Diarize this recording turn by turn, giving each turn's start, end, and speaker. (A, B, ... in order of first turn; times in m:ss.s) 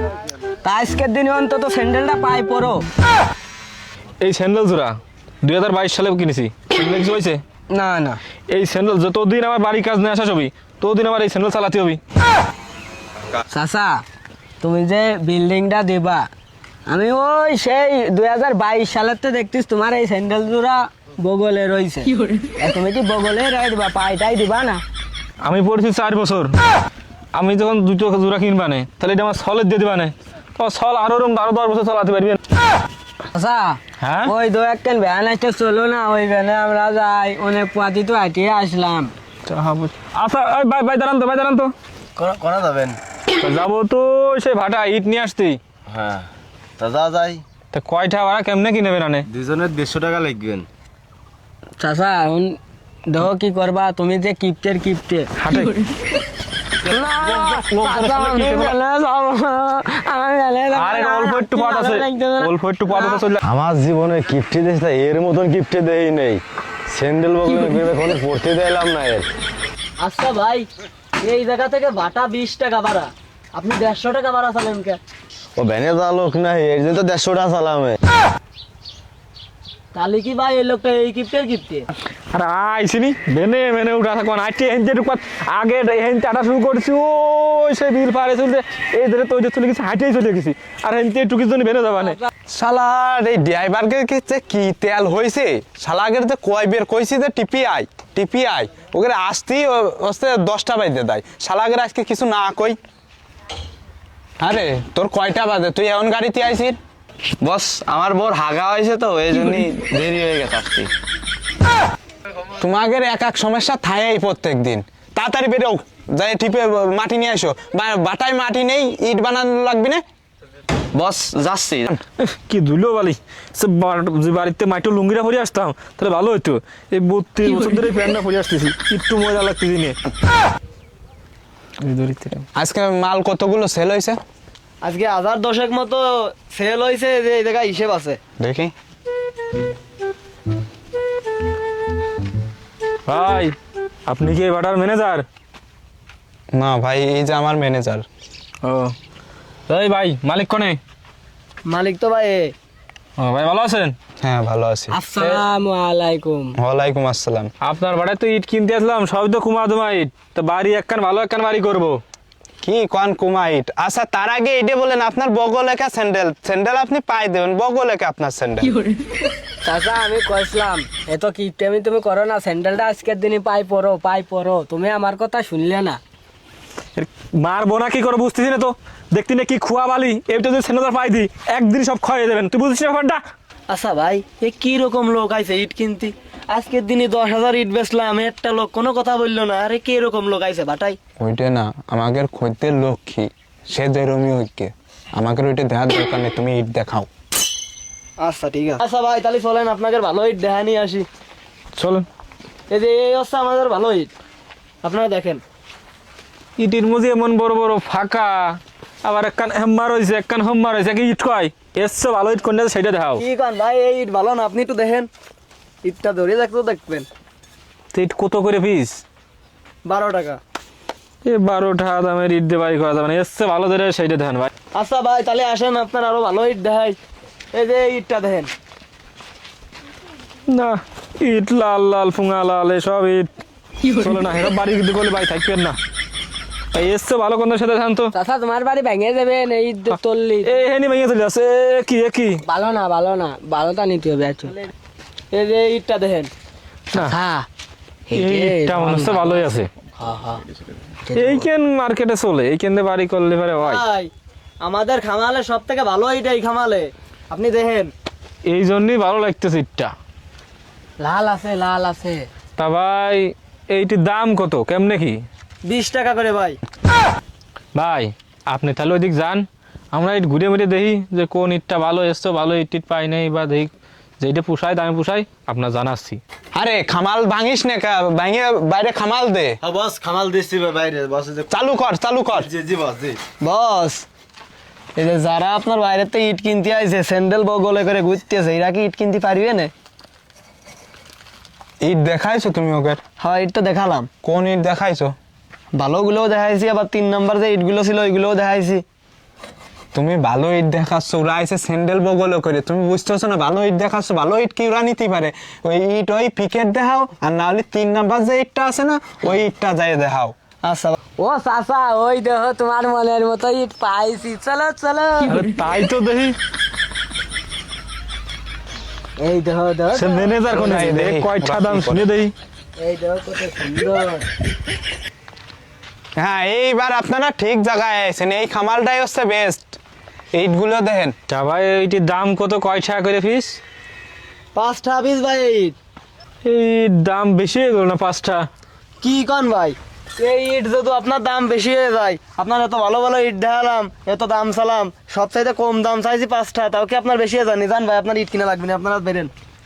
0:00.6-0:02.9 A
0:04.2-0:07.4 B
0:07.7-0:08.2 A
0:08.5-0:12.0 B
0:13.5-0:14.0 A
0:14.6-0:16.3 A
0:16.9-0:24.8 A
0:25.4-0:26.6 B
0:27.3-0:32.4 B
0:33.3-0:39.1 A
0:34.0-0:34.3 B
0:39.5-0:41.7 B
0:42.2-0:43.0 C
0:43.4-0:45.6 B
0:45.9-0:46.3 C
0:46.8-0:47.4 C
0:47.7-0:49.2 B
0:49.3-0:50.7 C
0:51.8-0:55.3 A
0:55.4-0:55.8 B
0:56.8-1:03.2 A
0:57.2-0:58.8 B
1:00.7-1:03.4 B
1:03.4-1:09.2 C
1:10.0-1:10.7 D
1:11.2-1:15.0 D
1:15.6-1:18.0 C
1:19.9-1:21.9 D
1:22.3-1:32.2 B
1:32.5-1:42.8 E
1:44.4-1:46.8 E
1:47.4-1:50.9 C
1:52.6-2:00.0 E
2:00.9-2:01.9 C
2:02.2-2:10.0 B
2:11.8-2:12.5 B
2:12.6-2:14.2 E
2:14.8-2:18.2 D
2:18.4-2:18.7 E
2:23.1-2:23.6 B
2:24.1-2:25.2 B
2:26.5-2:28.1 E
2:28.6-2:28.9 B
2:29.7-2:30.8 B
2:31.7-2:32.5 D
2:33.2-2:34.0 B
2:34.2-2:35.0 E
2:34.9-2:36.6 A
2:36.6-2:37.5 E
2:37.6-2:42.0 B
2:42.6-2:48.8 E
2:49.6-2:56.0 A
2:57.0-3:03.2 B
3:03.7-3:11.0 D
3:11.2-3:17.1 E
3:18.2-3:21.1 D
3:21.8-3:22.1 B
3:22.7-3:24.1 D
3:24.8-3:25.4 D
3:26.6-3:33.2 B
3:33.2-3:35.1 D
3:35.8-3:37.1 D
3:37.9-3:39.0 B
3:39.9-3:40.4 D
3:41.2-3:44.5 B
3:44.8-3:47.0 D
3:47.5-3:48.5 D
3:50.5-3:53.3 B
3:53.8-3:55.8 B
3:56.7-3:58.1 B
3:58.1-4:00.6 A
3:59.9-4:02.4 B
4:02.4-4:04.6 A
4:05.3-4:06.3 D
4:06.9-4:07.5 A
4:08.1-4:09.4 A
4:08.1-4:09.7 B
4:10.0-4:10.4 A
4:11.0-4:11.5 A
4:11.1-4:13.8 B
4:13.6-4:14.1 D
4:14.6-4:17.9 D
4:18.5-4:19.9 B
4:21.0-4:22.3 A
4:22.6-4:25.2 B
4:25.6-4:26.6 D
4:27.8-4:36.2 B
4:36.6-4:39.6 E
4:39.6-4:41.5 C
4:41.5-4:42.5 E
4:42.4-4:43.2 C
4:43.4-4:44.1 D
4:45.0-4:49.7 D
4:51.8-4:53.0 E
4:53.2-4:54.1 D
4:54.2-4:55.1 E
4:55.7-4:58.8 D
4:59.9-5:10.3 E
5:10.6-5:11.0 D
5:11.2-5:15.5 A
5:15.2-5:16.4 B
5:19.2-5:20.3 A
5:19.9-5:22.3 B
5:20.5-5:22.1 E
5:22.8-5:24.3 A
5:26.2-5:29.8 E
5:30.3-5:31.1 E
5:31.3-5:33.6 B
5:34.6-5:35.8 D
5:36.4-5:38.5 B
5:39.0-5:49.3 D